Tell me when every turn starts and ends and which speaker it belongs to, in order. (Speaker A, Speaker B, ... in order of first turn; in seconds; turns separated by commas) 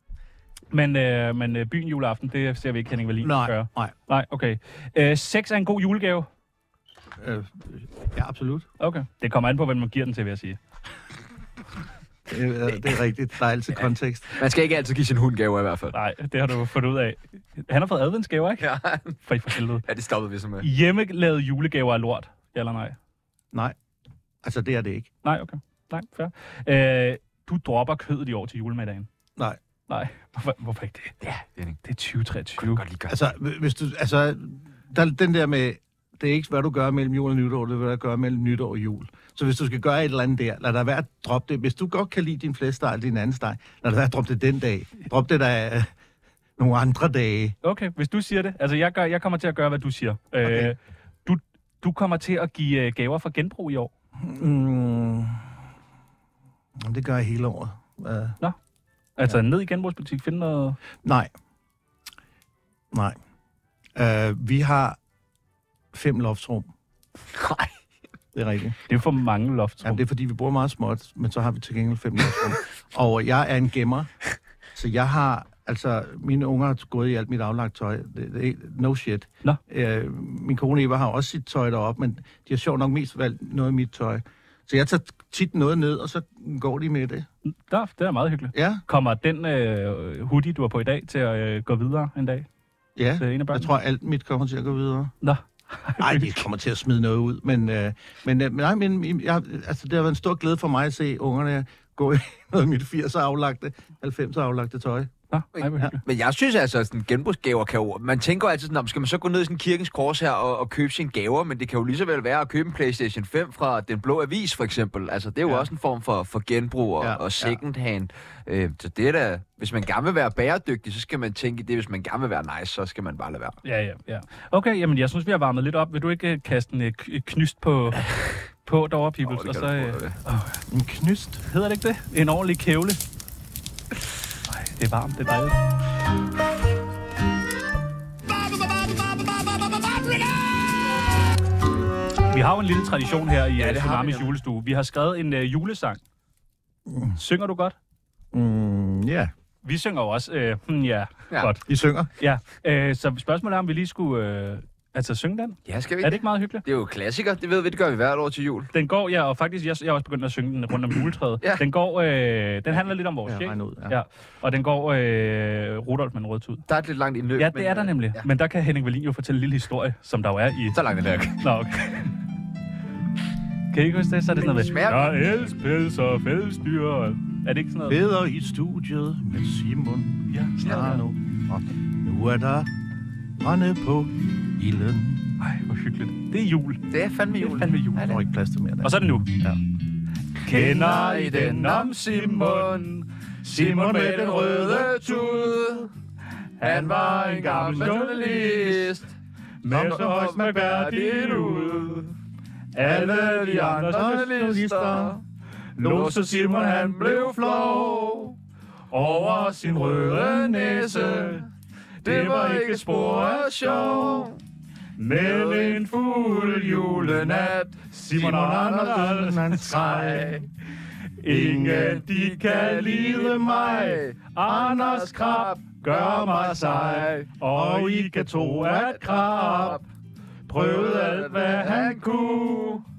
Speaker A: 0.7-6.3, Speaker B: 3.2-3.9, Speaker B: 7.2-8.7, Speaker A: 8.8-10.6, Speaker B: 12.3-14.4, Speaker C: 14.3-16.0, Speaker A: 15.9-18.7, Speaker C: 18.6-19.2, Speaker A: 19.2-19.9, Speaker C: 19.8-20.7, Speaker A: 20.6-23.0, Speaker B: 24.4-25.1, Speaker A: 25.2-29.1, Speaker A: 29.9-31.2, Speaker C: 31.2-31.8, Speaker A: 31.8-32.8, Speaker C: 32.6-33.2, Speaker B: 33.1-45.9, Speaker B: 46.6-47.5, Speaker A: 47.6-53.9, Speaker B: 50.4-50.7, Speaker B: 54.2-55.5, Speaker B: 56.8-58.4, Speaker A: 59.2-60.8, Speaker B: 61.0-61.3, Speaker B: 62.9-63.2, Speaker B: 64.0-65.0, Speaker B: 65.9-66.7, Speaker C: 67.3-67.7, Speaker B: 68.3-68.8, Speaker A: 68.9-70.0, Speaker B: 69.8-74.1, Speaker B: 74.8-87.3, Speaker A: 87.5-92.5, Speaker B: 88.5-88.8, Speaker B: 93.0-95.1, Speaker A: 93.2-93.7, Speaker A: 95.2-96.3, Speaker B: 96.0-105.1, Speaker A: 105.3-106.0, Speaker C: 105.6-123.6, Speaker B: 117.0-117.6, Speaker A: 123.6-128.1, Speaker A: 128.7-130.6, Speaker C: 129.2-130.2, Speaker B: 130.7-131.4, Speaker A: 131.5-133.0, Speaker A: 134.5-135.6, Speaker A: 142.3-146.0, Speaker C: 143.6-144.3, Speaker B: 146.9-147.2, Speaker A: 147.2-147.8, Speaker B: 148.3-149.3, Speaker A: 149.6-151.6, Speaker B: 151.7-152.1, Speaker A: 152.2-156.6, Speaker C: 155.7-158.7, Speaker A: 158.7-166.7, Speaker B: 163.2-164.0, Speaker C: 166.7-168.2, Speaker A: 167.4-170.8, Speaker C: 170.7-171.4, Speaker A: 171.4-172.1, Speaker A: 173.7-178.0, Speaker C: 174.6-175.5, Speaker B: 177.9-182.7, Speaker A: 180.3-181.0, Speaker B: 183.4-185.4, Speaker A: 185.4-186.8, Speaker C: 186.9-188.2, Speaker A: 187.4-188.1, Speaker B: 188.1-189.6, Speaker A: 188.8-189.3, Speaker A: 190.4-194.4, Speaker B: 190.6-191.9, Speaker C: 190.6-192.9, Speaker B: 193.5-195.5, Speaker C: 193.7-195.9, Speaker A: 196.6-198.8, Speaker C: 196.6-199.1, Speaker B: 197.1-197.9, Speaker A: 199.6-202.1, Speaker B: 199.7-201.0, Speaker C: 199.8-202.1, Speaker A: 202.8-204.2, Speaker B: 202.8-205.2, Speaker C: 202.8-205.2, Speaker B: 205.8-208.2, Speaker A: 205.8-207.0, Speaker C: 205.8-208.4, Speaker A: 208.9-211.5, Speaker C: 209.4-211.5, Speaker A: 212.1-213.5, Speaker C: 212.1-214.4, Speaker B: 213.4-214.3, Speaker A: 215.0-220.0, Speaker C: 215.2-217.8, Speaker B: 218.1-220.4, Speaker C: 219.7-220.4, Speaker A: 221.2-229.8, Speaker B: 221.3-222.0, Speaker C: 221.6-227.3, Speaker B: 222.9-229.8, Speaker C: 229.4-229.8, Speaker A: 230.5-232.6, Speaker B: 230.5-232.0, Speaker C: 230.7-232.8